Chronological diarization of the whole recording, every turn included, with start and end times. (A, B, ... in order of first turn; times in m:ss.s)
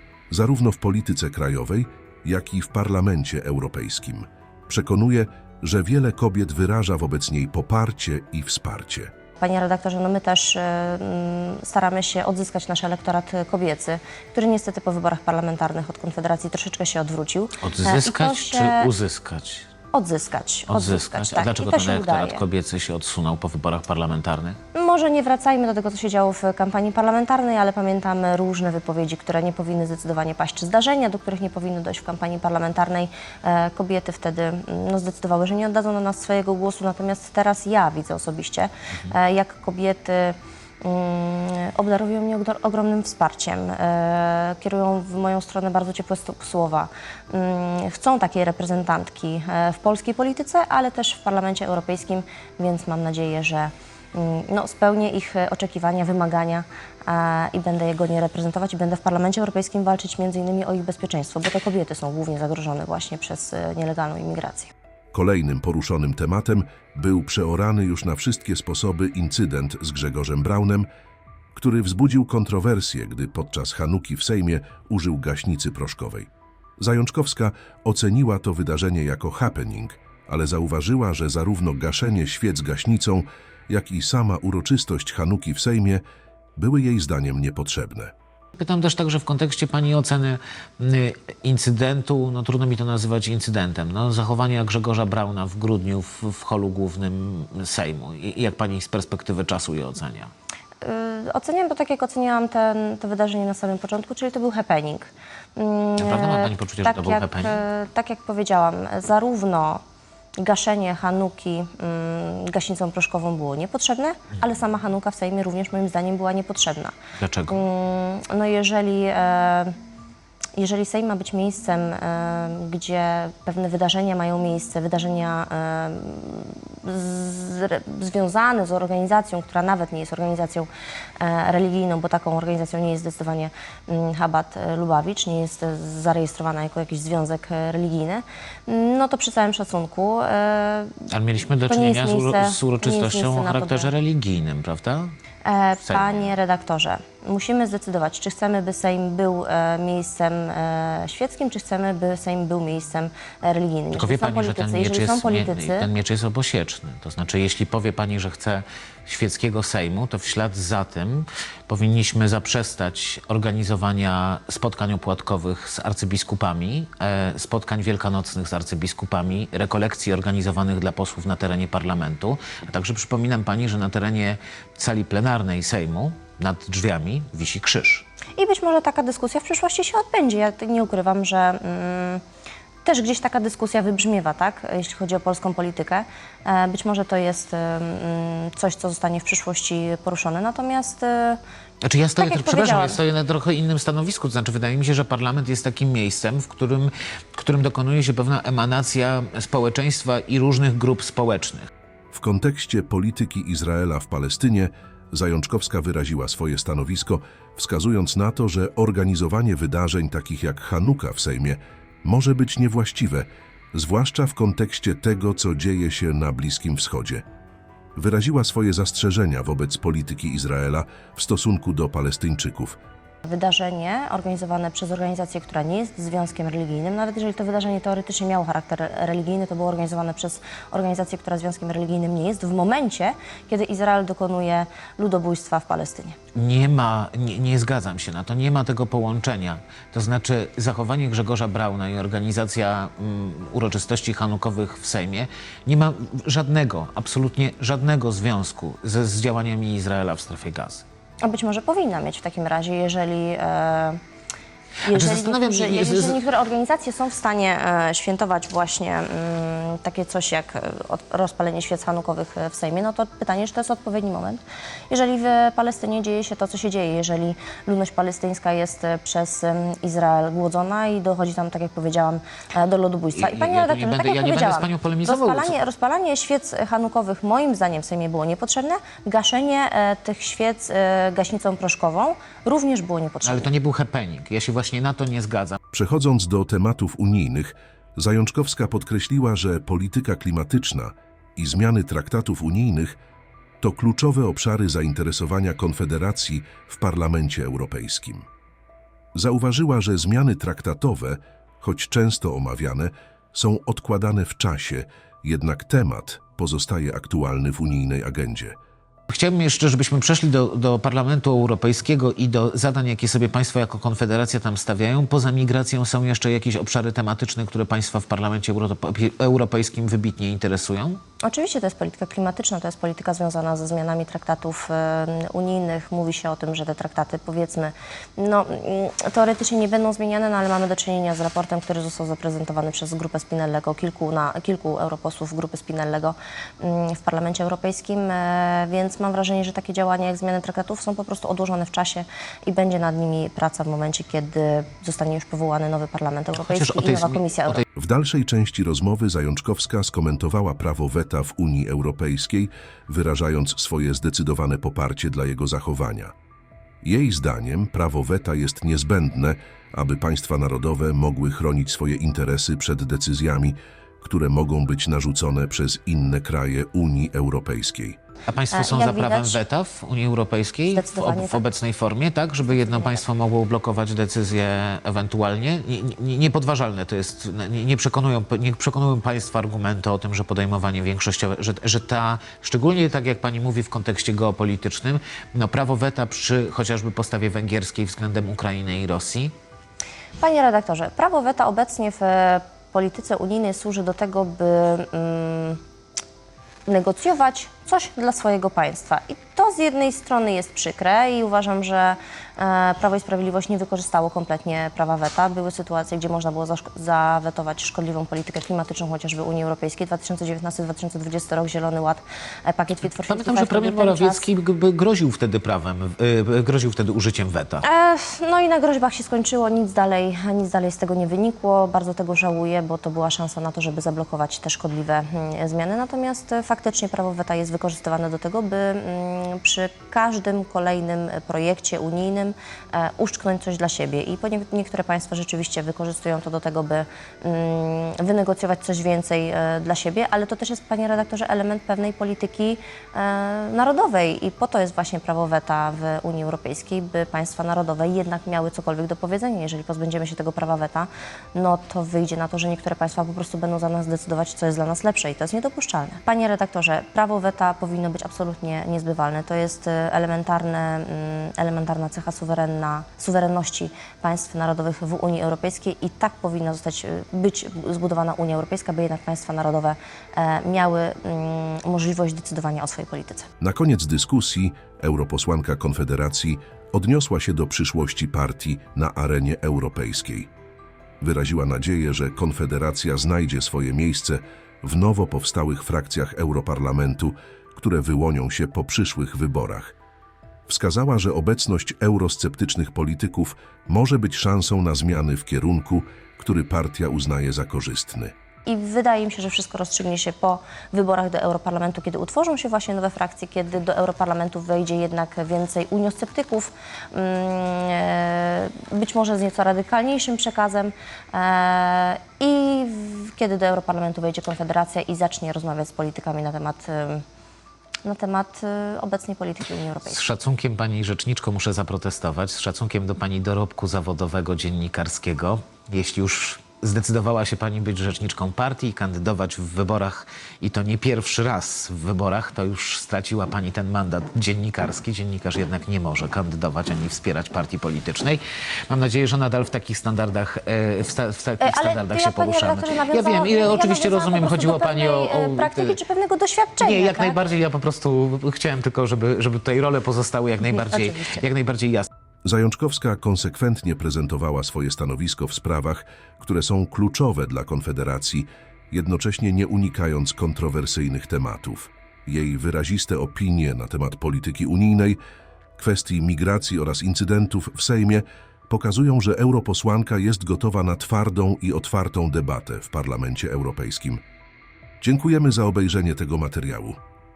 0:00.3-0:09.1 A
0:09.4-0:18.9 B
0:17.6-0:19.7 C
0:19.9-0:22.4 B
0:20.7-0:24.6 C
0:24.7-1:04.7 B
1:05.1-1:10.9 A
1:11.5-1:16.3 A
1:16.8-1:26.0 A
1:26.6-1:28.1 A
1:28.6-1:40.3 C
1:40.8-1:49.8 B
1:46.0-1:47.6 C
1:50.4-1:56.9 B
1:57.2-1:57.6 C
1:57.5-1:59.8 B
2:00.6-2:10.7 B
2:11.2-2:21.1 B
2:21.1-2:25.1 C
2:21.7-2:23.9 B
2:25.4-2:35.9 B
2:25.8-2:26.2 C
2:33.9-2:58.1 C
2:58.4-3:02.2 B
3:02.8-3:11.4 B
3:11.8-3:21.7 C
3:12.2-3:13.0 B
3:22.1-3:37.2 A
3:38.0-3:42.8 A
3:43.2-3:56.2 B
3:56.3-4:10.8 C
4:11.2-4:14.0 B
4:14.8-4:43.5 B
4:14.8-4:16.2 C
4:33.1-4:35.5 C
4:43.2-4:45.6 C
4:45.7-4:53.0 A
4:53.6-4:58.2 A
4:59.1-5:08.6 A
5:09.1-5:21.0 C
5:21.2-5:47.6 B
5:46.3-5:47.6 C
5:47.7-5:56.1 A
5:56.8-6:08.0 A
6:08.3-6:29.3 C
6:08.5-6:09.4 B
6:10.7-6:11.4 B
6:12.5-6:13.0 B
6:30.2-6:35.6 B
6:36.7-6:54.3 B
6:53.0-6:57.6 C
6:57.6-7:53.3 B
7:53.4-8:00.3 A
8:01.0-8:09.7 A
8:10.5-8:18.1 A
8:18.4-8:37.0 B
8:37.8-8:40.0 B
8:39.8-9:05.8 C
9:01.4-9:07.2 B
9:06.6-9:11.9 C
9:10.5-9:11.2 B
9:12.2-9:25.0 A
9:25.6-9:34.0 A
9:34.8-9:36.8 A